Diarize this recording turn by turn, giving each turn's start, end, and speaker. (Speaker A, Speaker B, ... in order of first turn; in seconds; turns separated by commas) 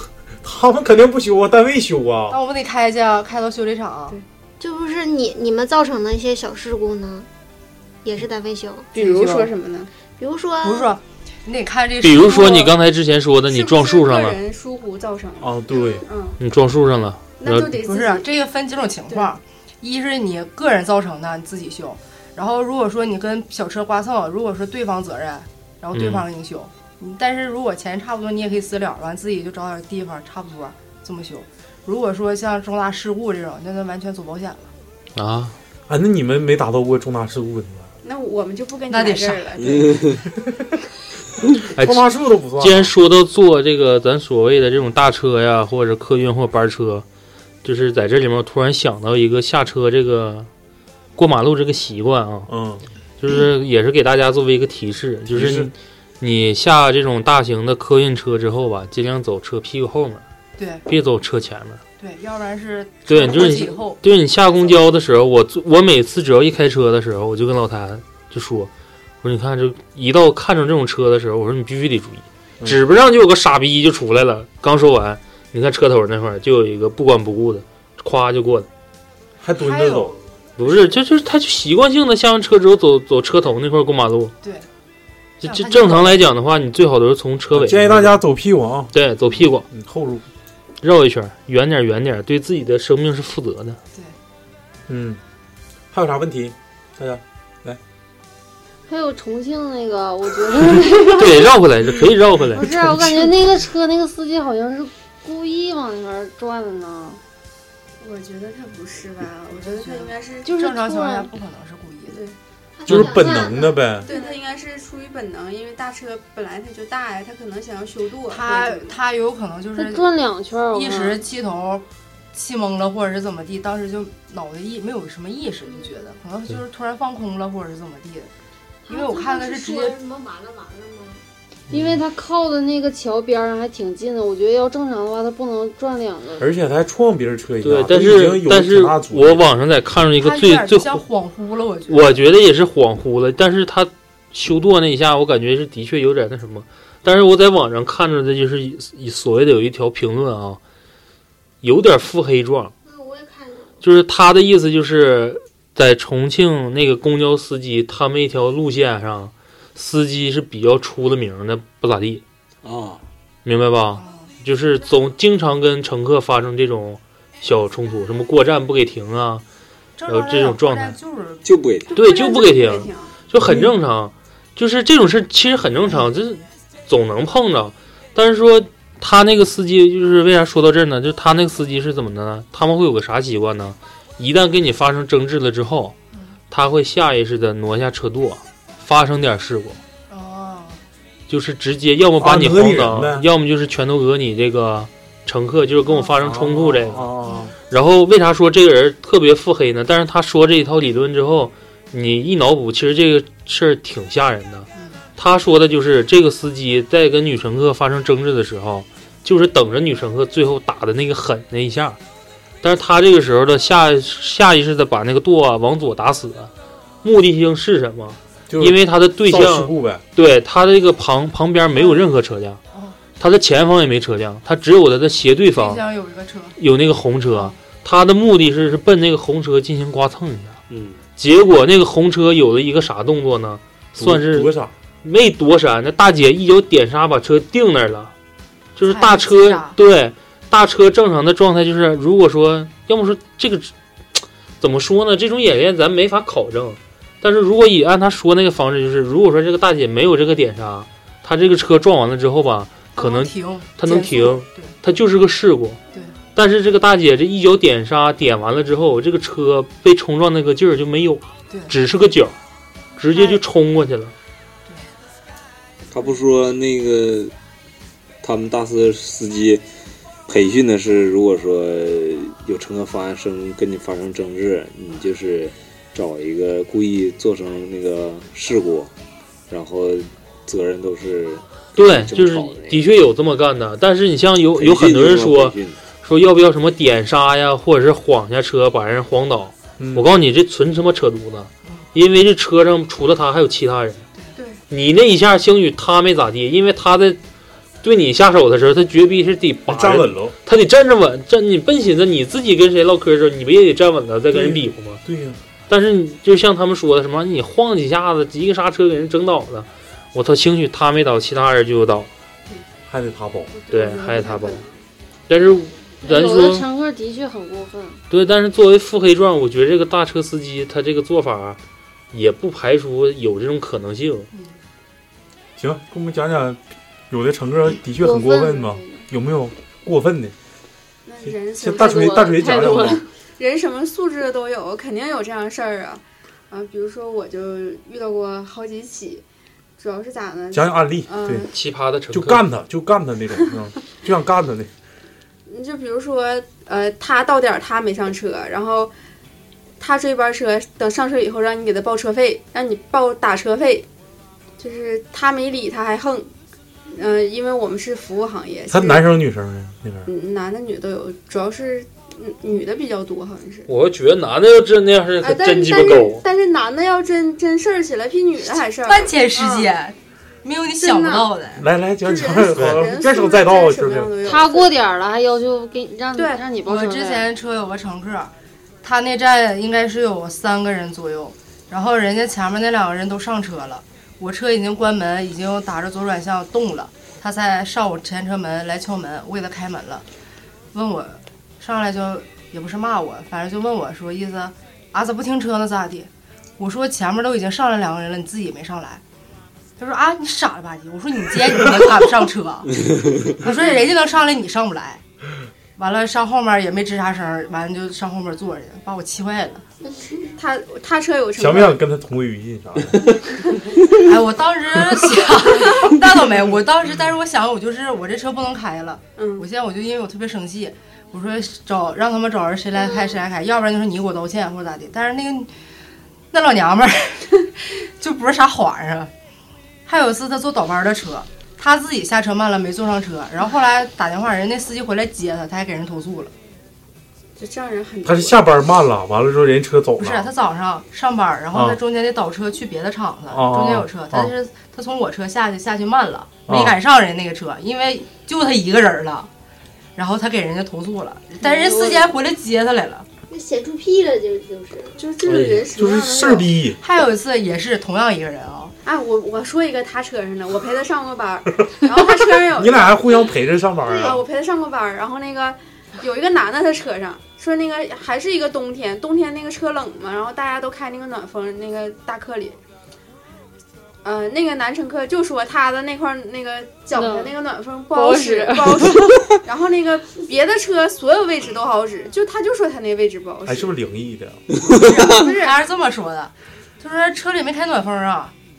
Speaker A: 0.4-2.4, Speaker B: 2.3-4.2, Speaker C: 4.6-7.3, Speaker C: 8.0-8.9, Speaker B: 8.9-9.5, Speaker D: 8.9-9.9, Speaker C: 10.2-10.9, Speaker B: 10.6-12.7, Speaker E: 12.0-14.4, Speaker D: 13.5-16.4, Speaker A: 15.4-16.1, Speaker E: 16.4-17.7, Speaker D: 17.4-18.3, Speaker B: 17.8-34.7, Speaker E: 25.9-26.2, Speaker E: 35.1-35.5, Speaker A: 35.9-37.9, Speaker D: 38.0-40.1, Speaker B: 38.9-39.5, Speaker E: 41.7-42.0, Speaker A: 41.8-42.9, Speaker E: 42.6-47.0, Speaker E: 47.6-50.5, Speaker E: 51.1-52.5, Speaker A: 52.5-52.8, Speaker E: 53.2-60.2, Speaker A: 55.3-55.7, Speaker B: 60.6-60.8, Speaker E: 60.9-61.8, Speaker B: 62.0-64.0, Speaker E: 63.1-68.7, Speaker E: 69.2-78.7, Speaker A: 79.4-80.1, Speaker B: 79.5-81.0, Speaker E: 80.6-84.3, Speaker B: 84.4-84.7, Speaker E: 85.4-88.2, Speaker B: 85.4-86.2, Speaker A: 87.5-88.9, Speaker E: 88.9-89.7, Speaker A: 89.7-90.2, Speaker E: 90.8-93.8, Speaker A: 94.9-95.2, Speaker A: 95.9-97.8, Speaker F: 98.9-101.5, Speaker E: 101.2-103.3, Speaker F: 102.5-107.2, Speaker D: 108.0-110.5, Speaker B: 109.5-112.2, Speaker F: 110.4-111.3, Speaker D: 112.1-112.3, Speaker C: 112.7-114.4, Speaker A: 112.9-114.1, Speaker D: 114.0-118.9, Speaker B: 118.3-120.1, Speaker F: 119.8-121.2, Speaker B: 120.7-128.3, Speaker C: 128.8-131.2, Speaker B: 128.9-129.9, Speaker F: 131.7-136.5, Speaker A: 136.4-139.4, Speaker E: 137.6-141.0, Speaker B: 140.2-142.2, Speaker E: 141.9-150.6, Speaker E: 151.6-152.7, Speaker C: 152.8-153.7, Speaker E: 153.8-162.2, Speaker G: 162.6-163.0, Speaker E: 163.4-169.4, Speaker B: 163.9-164.3, Speaker B: 170.0-171.4, Speaker E: 170.1-171.0, Speaker G: 171.4-171.9, Speaker D: 171.9-173.1, Speaker E: 171.9-185.9, Speaker A: 173.4-173.7, Speaker E: 186.5-189.8, Speaker B: 190.1-190.8, Speaker E: 191.3-197.1, Speaker A: 192.2-193.3, Speaker B: 195.8-196.1, Speaker A: 196.2-197.5, Speaker B: 197.2-197.5, Speaker E: 197.7-212.0, Speaker B: 204.8-205.0, Speaker E: 212.6-216.5, Speaker E: 217.0-222.6, Speaker A: 218.5-220.0, Speaker B: 221.7-222.1, Speaker B: 222.7-223.0, Speaker E: 223.2-225.8, Speaker B: 225.5-226.6, Speaker E: 226.6-230.6, Speaker B: 227.3-227.6, Speaker G: 230.7-231.0, Speaker E: 231.2-234.5, Speaker A: 234.0-234.7, Speaker E: 235.0-238.1, Speaker E: 238.8-255.8, Speaker B: 238.8-239.7, Speaker B: 252.9-254.7, Speaker E: 256.3-262.4, Speaker E: 263.0-264.1, Speaker B: 263.1-263.4, Speaker G: 265.9-267.3, Speaker G: 268.2-269.6, Speaker G: 270.3-278.9, Speaker G: 279.5-282.9, Speaker E: 281.8-294.1, Speaker G: 284.6-285.8, Speaker A: 289.8-290.1, Speaker D: 294.3-294.6, Speaker E: 294.7-297.2, Speaker E: 297.8-305.0, Speaker A: 299.7-300.3, Speaker A: 304.3-305.4, Speaker E: 305.7-312.1, Speaker A: 312.9-313.5, Speaker D: 313.5-314.8, Speaker E: 313.7-314.6, Speaker E: 315.3-316.6, Speaker F: 316.0-318.0, Speaker E: 318.1-321.6, Speaker E: 322.1-324.3, Speaker A: 325.6-330.3, Speaker F: 328.0-329.0, Speaker D: 331.1-332.4, Speaker A: 331.6-333.0, Speaker F: 331.8-333.1, Speaker D: 333.4-339.2, Speaker D: 339.8-341.5, Speaker A: 340.5-341.5, Speaker E: 341.5-342.4, Speaker A: 342.1-344.7, Speaker D: 345.5-348.9, Speaker D: 349.8-353.9, Speaker D: 354.6-356.3, Speaker D: 356.9-359.1, Speaker A: 358.7-360.1, Speaker D: 360.1-363.7, Speaker E: 363.7-366.2, Speaker D: 365.2-369.7, Speaker B: 368.9-371.7, Speaker D: 370.8-371.3, Speaker A: 371.6-374.1, Speaker D: 372.0-374.7, Speaker F: 374.2-377.3, Speaker D: 376.1-376.4, Speaker B: 376.6-378.3, Speaker B: 378.8-390.0, Speaker B: 390.7-399.0, Speaker B: 399.8-402.7, Speaker B: 403.3-405.0, Speaker B: 405.8-409.6, Speaker D: 410.3-411.8, Speaker A: 411.4-413.1, Speaker B: 413.9-425.5, Speaker D: 419.2-419.4, Speaker B: 426.3-429.1, Speaker B: 429.9-436.3, Speaker D: 437.4-438.4, Speaker A: 438.0-440.3, Speaker B: 440.0-449.3, Speaker A: 441.5-441.8, Speaker A: 443.3-444.3, Speaker A: 446.5-446.8, Speaker B: 449.9-453.1, Speaker D: 451.4-452.1, Speaker C: 453.3-455.0, Speaker D: 455.0-456.5, Speaker A: 455.3-456.8, Speaker E: 455.3-455.6, Speaker B: 456.8-458.7, Speaker D: 458.8-463.1, Speaker A: 462.5-464.2, Speaker C: 463.8-464.2, Speaker D: 463.9-472.6, Speaker D: 474.0-483.7, Speaker F: 476.9-477.4, Speaker F: 477.9-479.2, Speaker A: 483.4-484.4, Speaker B: 484.8-488.3, Speaker D: 485.1-485.6